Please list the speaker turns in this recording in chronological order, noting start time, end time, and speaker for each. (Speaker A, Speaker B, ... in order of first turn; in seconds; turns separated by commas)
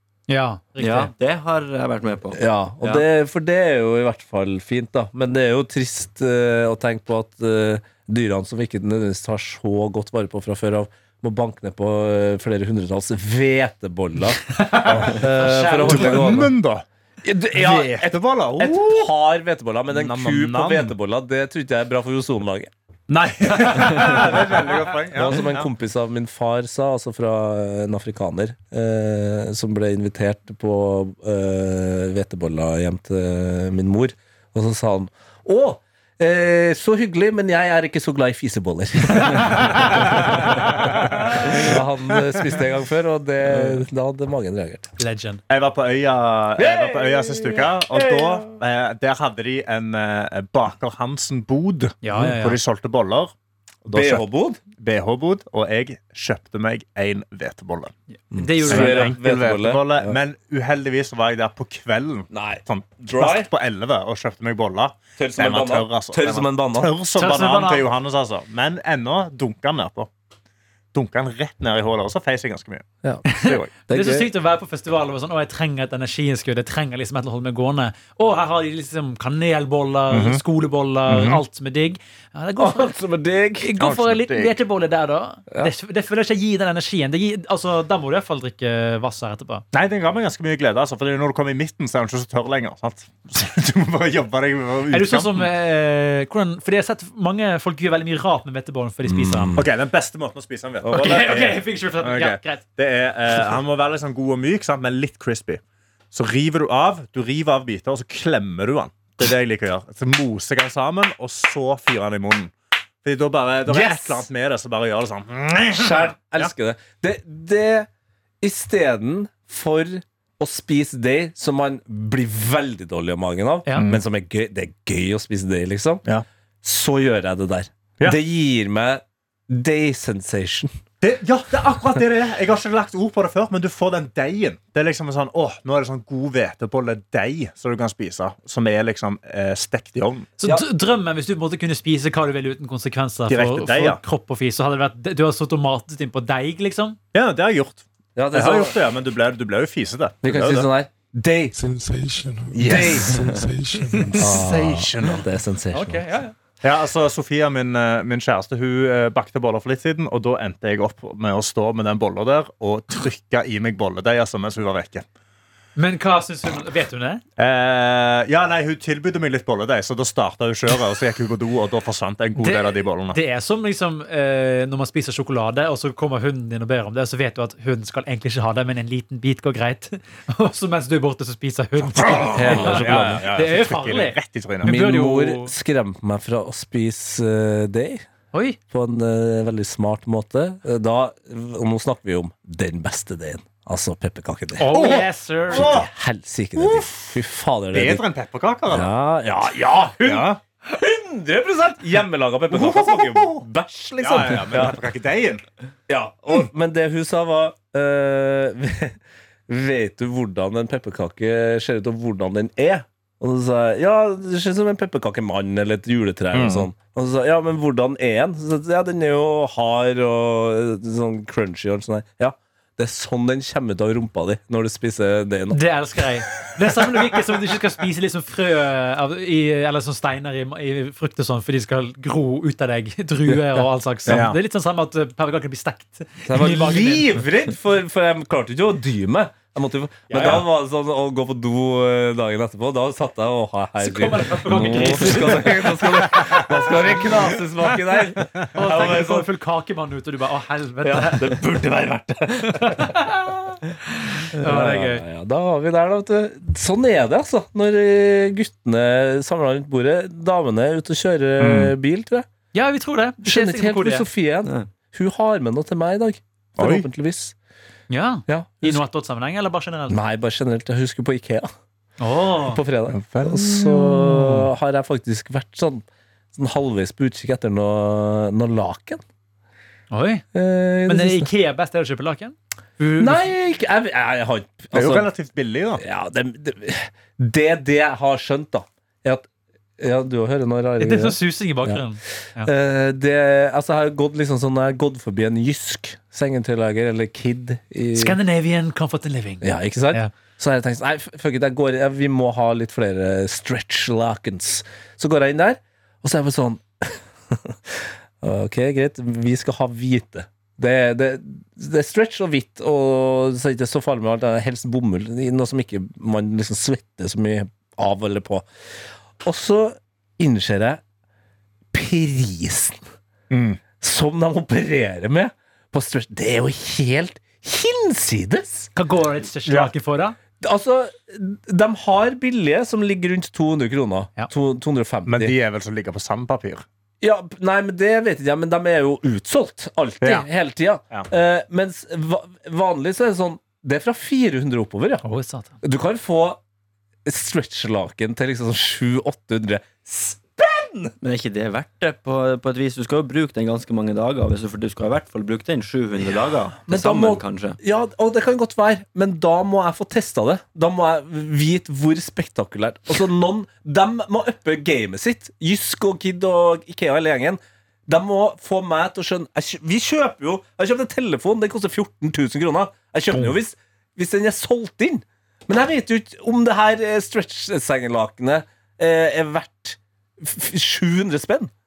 Speaker A: 0.3-1.1, Speaker B: 0.8-3.0, Speaker C: 2.3-16.5, Speaker A: 14.5-16.4, Speaker D: 15.8-16.8, Speaker C: 17.2-22.7, Speaker D: 17.5-19.1, Speaker D: 19.9-20.9, Speaker D: 23.1-25.7, Speaker A: 23.6-24.2, Speaker C: 23.7-24.3, Speaker C: 25.1-44.9, Speaker D: 39.8-41.6, Speaker A: 45.0-45.4, Speaker D: 45.5-53.3, Speaker C: 46.6-48.6, Speaker A: 52.0-52.6, Speaker D: 53.8-54.2, Speaker C: 53.9-54.6, Speaker D: 54.8-57.9, Speaker A: 58.3-59.2, Speaker C: 58.3-60.2, Speaker D: 58.6-70.1, Speaker C: 62.3-63.5, Speaker C: 65.2-66.9, Speaker A: 67.2-67.8, Speaker D: 70.9-73.7, Speaker A: 73.3-82.9, Speaker C: 73.9-74.3, Speaker D: 80.1-80.4, Speaker D: 81.1-81.4, Speaker C: 82.6-83.7, Speaker A: 83.6-89.6, Speaker D: 83.8-84.5, Speaker D: 89.7-95.5, Speaker A: 94.9-99.5, Speaker C: 99.0-99.7, Speaker D: 99.5-105.6, Speaker C: 100.8-101.5, Speaker A: 100.9-102.6, Speaker D: 106.1-112.5, Speaker D: 113.0-116.5, Speaker C: 113.7-114.3, Speaker C: 115.7-117.9, Speaker C: 118.4-126.0, Speaker C: 126.6-130.7, Speaker D: 131.0-140.3, Speaker A: 140.4-147.0, Speaker D: 143.3-144.0, Speaker D: 147.1-150.7, Speaker C: 148.2-148.8, Speaker C: 150.2-151.6, Speaker E: 151.6-154.3, Speaker C: 152.5-153.3, Speaker D: 154.1-155.2, Speaker C: 154.2-156.1, Speaker A: 155.7-156.3, Speaker D: 156.6-165.0, Speaker A: 165.8-167.2, Speaker D: 167.4-173.2, Speaker A: 172.4-185.5, Speaker D: 181.9-184.7, Speaker C: 182.3-183.3, Speaker C: 184.6-188.0, Speaker A: 188.3-188.6, Speaker C: 188.7-198.0, Speaker A: 194.6-195.8, Speaker D: 194.7-195.9, Speaker D: 196.6-197.1, Speaker D: 197.7-198.9, Speaker C: 198.7-204.8, Speaker D: 200.0-200.4, Speaker D: 202.5-203.4, Speaker D: 204.0-205.4, Speaker C: 205.9-225.6, Speaker D: 216.3-216.7, Speaker A: 225.5-237.2, Speaker C: 233.3-234.2, Speaker D: 234.1-234.4, Speaker C: 236.2-249.3, Speaker A: 240.1-240.4, Speaker D: 240.1-240.4, Speaker A: 243.8-245.7, Speaker A: 248.5-251.4, Speaker C: 250.8-253.0, Speaker A: 252.5-255.0, Speaker C: 254.4-262.3, Speaker D: 261.4-261.7, Speaker A: 262.5-264.1, Speaker C: 263.2-267.3, Speaker D: 266.6-266.9, Speaker A: 267.9-270.0, Speaker C: 268.3-268.8, Speaker C: 269.9-271.5, Speaker A: 272.0-272.6, Speaker C: 272.4-279.0, Speaker D: 272.9-274.5, Speaker A: 279.9-280.2, Speaker C: 280.3-281.3, Speaker A: 280.9-283.3, Speaker C: 283.0-285.1, Speaker D: 284.7-285.8, Speaker C: 285.8-291.8, Speaker A: 290.8-292.5, Speaker C: 292.4-298.2, Speaker A: 297.9-300.1, Speaker C: 299.4-318.5, Speaker C: 319.2-320.8, Speaker C: 321.7-322.8, Speaker D: 323.3-323.6, Speaker C: 323.8-328.7, Speaker A: 328.7-330.2, Speaker C: 330.4-335.3, Speaker D: 335.1-336.6, Speaker C: 337.0-345.0, Speaker D: 340.0-340.3, Speaker A: 345.0-345.6, Speaker C: 345.6-346.4, Speaker C: 347.0-350.9, Speaker B: 351.0-357.6, Speaker C: 356.6-381.5